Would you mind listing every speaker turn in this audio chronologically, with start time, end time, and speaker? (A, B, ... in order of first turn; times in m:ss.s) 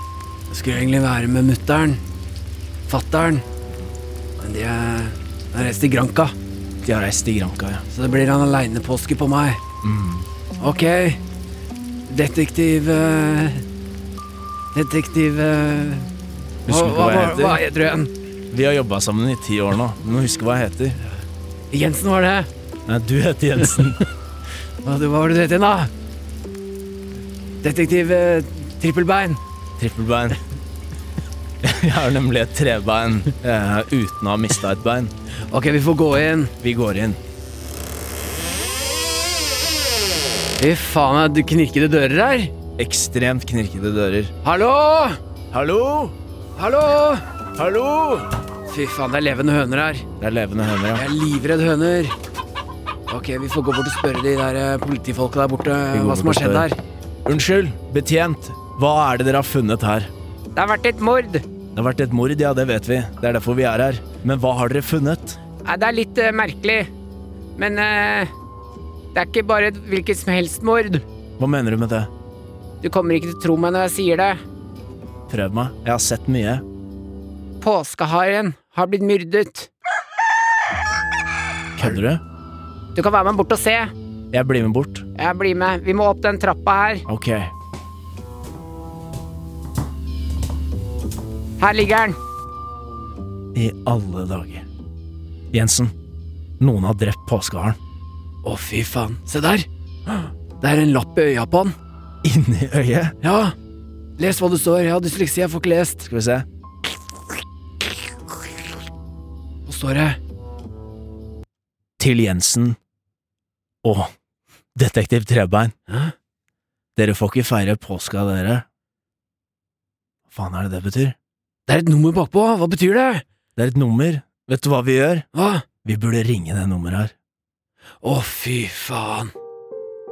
0:00.5-0:02.0 A
0:02.9-0:03.4 A
0:04.4-0:06.3 A
0:06.8-0:07.8 B
0:07.9-0:09.6 A
0:09.8-0:10.3 B
0:10.6-0:11.2 A
0:12.1-0:13.6 A
0:14.8-0:16.1 A
0:16.7-0:17.6 B
0:16.7-0:18.1 A
0:18.5-0:21.0 B
0:21.7-0:22.5 A
0:22.9-0:24.0 B
0:24.8-0:25.9 A
0:27.6-0:29.4 A
0:29.8-0:30.4 B
0:31.6-0:35.1 B
0:35.5-0:36.5 A
0:36.6-0:37.2 B
0:40.6-0:42.5 A
0:42.8-0:44.3 B
0:44.4-0:45.2 A
0:45.5-0:46.2 B
0:46.6-0:47.2 A
0:47.6-0:48.3 B
0:48.7-0:50.0 A
0:50.2-0:51.1 B
0:50.9-0:52.1 A
0:53.1-0:56.8 A
0:55.9-0:56.7 B
0:57.2-1:00.1 B
1:00.6-1:01.4 A
1:01.8-1:05.4 B
1:05.6-1:06.9 A
1:07.6-1:08.3 A
1:09.1-1:11.0 A
1:11.4-1:12.1 B
1:12.8-1:14.4 A
1:15.3-1:16.6 B
1:17.6-1:19.7 A
1:21.8-1:22.2 B
1:23.0-1:23.9 A
1:24.3-1:25.0 B
1:25.2-1:27.1 A
1:27.1-1:27.5 B
1:31.6-1:32.2 A
1:33.6-1:34.6 B
1:35.5-1:35.9 B
1:36.6-1:37.8 B
1:38.4-1:39.7 A
1:40.6-1:41.8 A
1:42.2-1:43.2 B
1:43.2-1:43.6 A
1:44.2-1:46.1 A
1:46.0-1:46.5 B
1:49.7-1:50.2 A
1:52.0-1:52.8 B
1:53.8-1:54.1 B
1:54.8-1:55.8 B
1:55.9-1:56.1 A
1:57.0-1:58.6 B
2:00.3-2:01.2 B
2:01.7-2:03.2 A
2:03.6-2:05.3 B
2:05.3-2:05.6 A
2:05.8-2:07.1 B
2:08.0-2:09.3 A